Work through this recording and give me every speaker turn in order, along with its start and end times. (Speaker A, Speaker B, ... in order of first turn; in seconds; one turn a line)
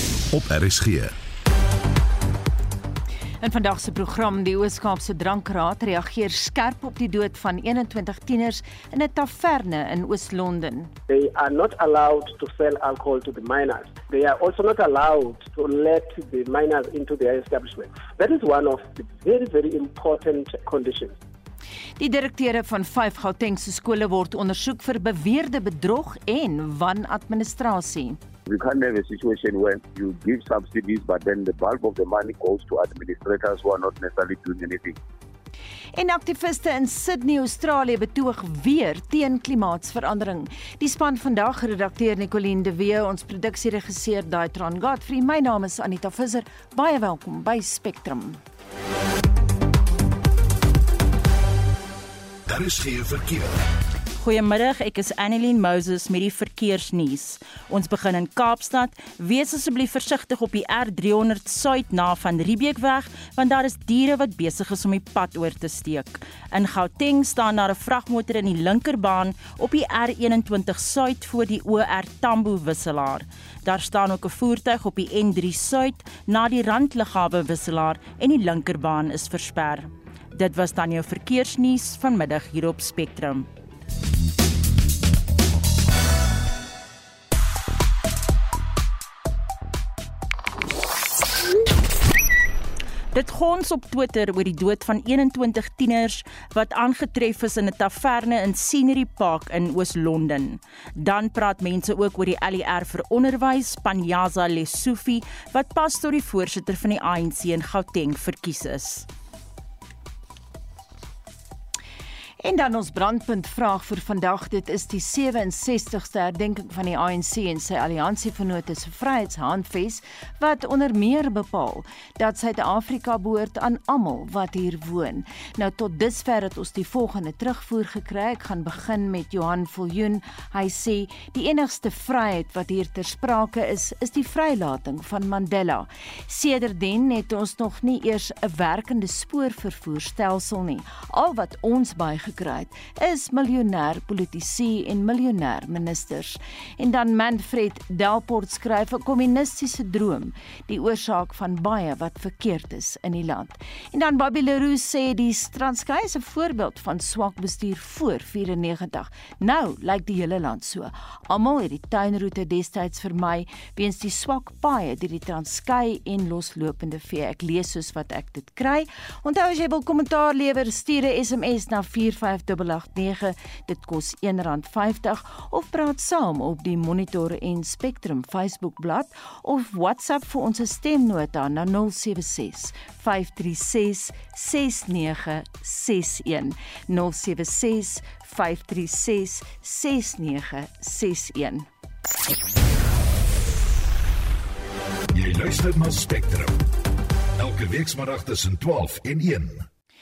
Speaker A: 0.3-1.1
Speaker B: 3.4-10.9
Speaker C: 11.1-21.2
Speaker B: 22.0-28.2
Speaker D: 28.5-35.0
Speaker B: 35.9-48.4
Speaker A: 52.5-53.6
Speaker E: 54.2-83.5
Speaker E: 93.1-109.1
Speaker B: 112.4-191.7
Speaker A: 195.1-196.6
Speaker A: 197.4-199.7